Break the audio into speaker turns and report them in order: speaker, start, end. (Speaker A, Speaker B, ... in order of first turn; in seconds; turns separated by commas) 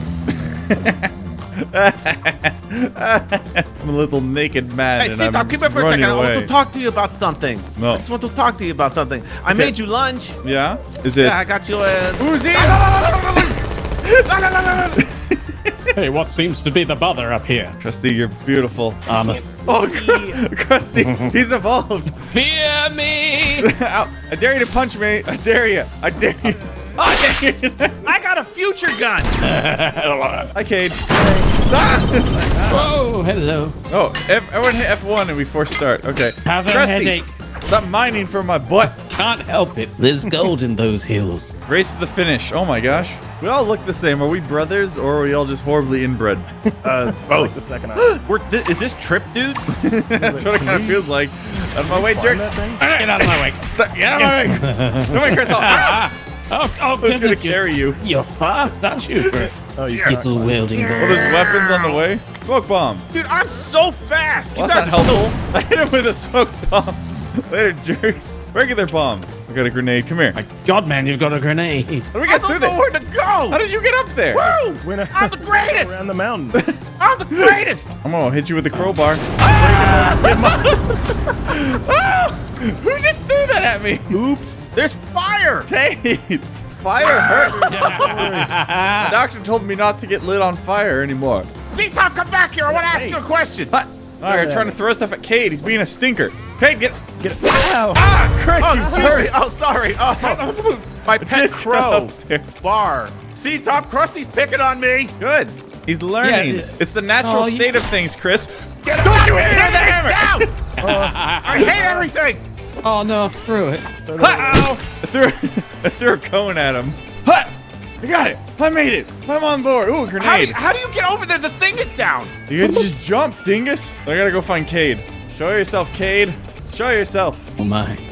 Speaker A: 0.4-6.5, Speaker B: 5.0-10.4, Speaker A: 7.8-8.0, Speaker A: 9.5-9.7, Speaker A: 10.4-11.5, Speaker B: 11.2-13.6, Speaker A: 12.2-13.6, Speaker B: 14.2-15.0, Speaker A: 15.0-15.9, Speaker C: 15.9-17.8, Speaker A: 17.8-22.3, Speaker C: 19.1-20.4, Speaker C: 22.2-23.7, Speaker A: 23.6-28.1, Speaker B: 28.0-29.5, Speaker C: 29.5-30.5, Speaker A: 30.5-32.9, Speaker D: 31.1-31.5, Speaker D: 32.5-32.9, Speaker C: 32.7-33.8, Speaker A: 33.9-39.0, Speaker C: 36.4-37.3, Speaker C: 39.1-41.5, Speaker A: 41.7-46.5, Speaker B: 46.8-49.7, Speaker D: 46.9-48.2, Speaker A: 49.7-52.6, Speaker D: 50.1-51.0, Speaker D: 51.8-52.8, Speaker C: 52.8-61.3, Speaker A: 53.7-56.1, Speaker A: 57.0-58.0, Speaker D: 59.3-60.7, Speaker B: 59.9-62.0, Speaker A: 61.0-63.0, Speaker B: 63.1-65.3, Speaker A: 64.5-70.4, Speaker C: 70.3-72.1, Speaker A: 72.1-72.8, Speaker B: 72.2-73.6, Speaker A: 73.5-74.5, Speaker B: 74.3-75.9, Speaker D: 74.6-76.6, Speaker B: 77.0-77.9, Speaker A: 78.0-84.2, Speaker D: 79.4-80.8, Speaker D: 84.1-84.7, Speaker B: 84.7-85.7, Speaker A: 85.7-88.4, Speaker C: 87.6-89.1, Speaker D: 87.7-88.5, Speaker A: 89.0-91.5, Speaker B: 91.7-93.7, Speaker D: 92.7-93.2, Speaker A: 93.7-97.0, Speaker D: 94.2-94.8, Speaker D: 97.2-98.0, Speaker A: 97.9-99.3, Speaker B: 98.5-100.4, Speaker C: 100.2-100.9, Speaker B: 101.0-105.1, Speaker A: 101.2-102.5, Speaker A: 105.2-110.5, Speaker C: 106.2-107.8, Speaker B: 108.9-110.5, Speaker C: 110.8-111.8, Speaker D: 110.8-112.1, Speaker B: 111.4-112.4, Speaker C: 112.8-113.9, Speaker D: 114.0-114.8, Speaker A: 114.2-120.6, Speaker B: 120.2-122.4, Speaker A: 122.5-127.5, Speaker C: 127.6-128.0